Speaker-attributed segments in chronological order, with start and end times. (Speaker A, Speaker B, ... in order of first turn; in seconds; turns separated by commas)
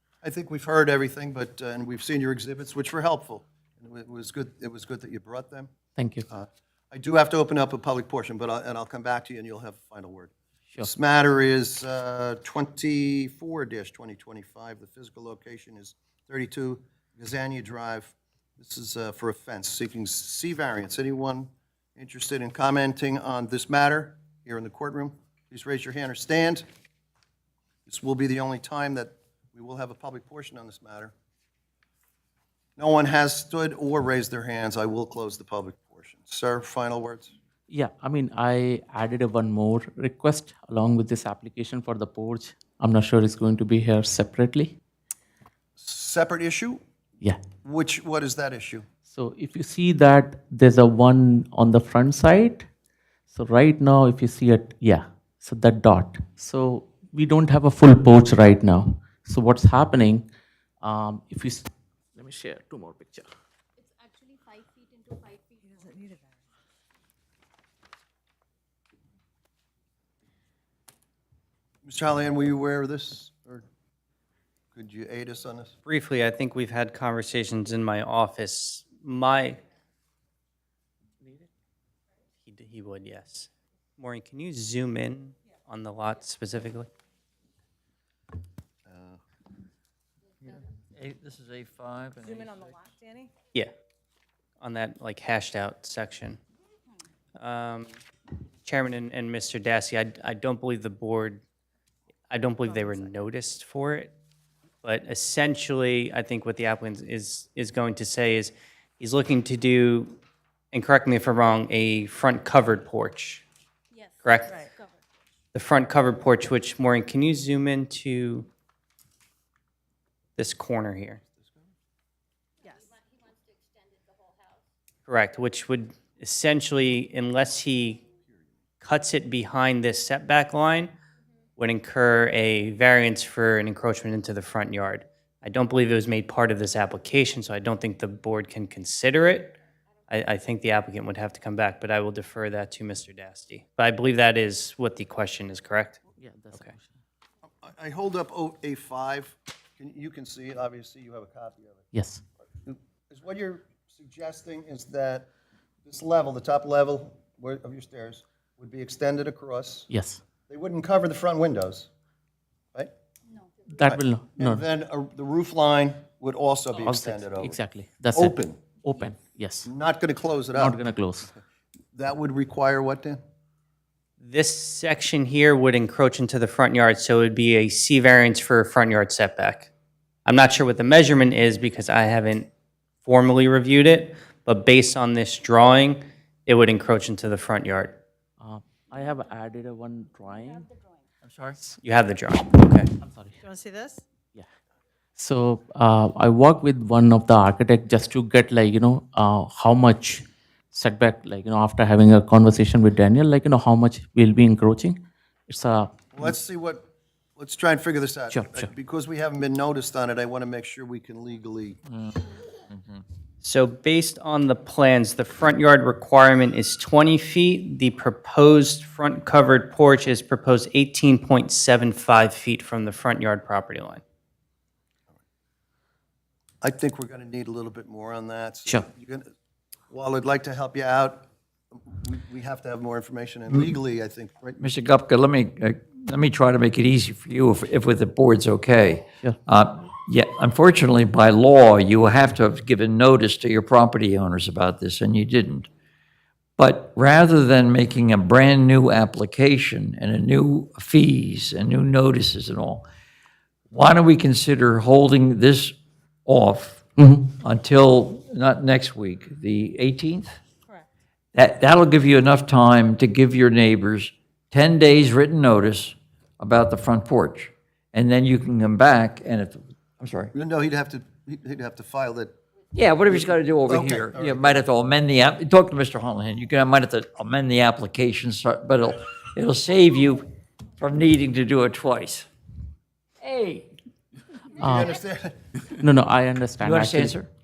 Speaker A: 0.2-5.7, Speaker B: 6.0-6.3, Speaker A: 6.3-26.6, Speaker A: 27.9-31.1, Speaker A: 32.8-37.3, Speaker B: 37.7-44.8, Speaker A: 45.8-46.8, Speaker A: 47.6-48.9, Speaker B: 49.1-52.7, Speaker B: 53.3-60.3, Speaker B: 60.8-63.3, Speaker C: 63.9-66.3, Speaker A: 71.8-73.7, Speaker A: 74.8-75.8, Speaker D: 75.8-79.6, Speaker B: 81.2-81.5, Speaker D: 82.5-86.9, Speaker A: 88.9-89.2, Speaker E: 90.5-92.9, Speaker C: 92.2-93.3, Speaker D: 94.6-96.4, Speaker D: 97.4-98.0, Speaker D: 98.7-101.4, Speaker D: 102.3-104.1, Speaker D: 104.8-110.2, Speaker D: 110.7-113.4, Speaker C: 114.0-114.7, Speaker D: 114.2-114.6, Speaker D: 115.5-118.5, Speaker D: 120.4-121.2, Speaker C: 122.6-124.4, Speaker D: 125.1-128.0, Speaker D: 128.8-130.9, Speaker D: 131.6-146.0, Speaker B: 146.2-146.9, Speaker A: 147.6-151.8, Speaker B: 151.9-152.2, Speaker A: 152.7-155.3, Speaker A: 155.9-159.9, Speaker B: 159.9-160.2, Speaker A: 160.5-161.9, Speaker B: 163.8-164.6, Speaker A: 163.8-167.6, Speaker B: 166.8-169.7, Speaker A: 168.1-168.6, Speaker A: 169.7-171.4, Speaker B: 170.5-171.3, Speaker A: 171.9-173.2, Speaker D: 174.2-179.7, Speaker D: 180.3-182.5, Speaker D: 183.1-188.0, Speaker B: 188.4-190.7, Speaker E: 191.2-191.6, Speaker D: 191.8-192.9, Speaker B: 193.0-193.4, Speaker C: 193.4-194.0, Speaker B: 195.2-206.3, Speaker A: 206.1-211.8, Speaker B: 208.3-208.7, Speaker E: 211.9-213.0, Speaker D: 213.4-224.0, Speaker A: 226.6-229.3, Speaker A: 229.9-234.6, Speaker E: 234.6-245.7, Speaker E: 246.6-252.8, Speaker E: 253.7-260.4, Speaker B: 257.0-257.3, Speaker E: 261.3-270.3, Speaker A: 270.3-272.3, Speaker E: 272.7-280.3, Speaker A: 273.1-274.6, Speaker E: 280.8-282.3, Speaker E: 283.2-283.7, Speaker A: 284.6-285.4, Speaker B: 284.6-285.0, Speaker B: 285.7-287.2, Speaker E: 286.6-287.3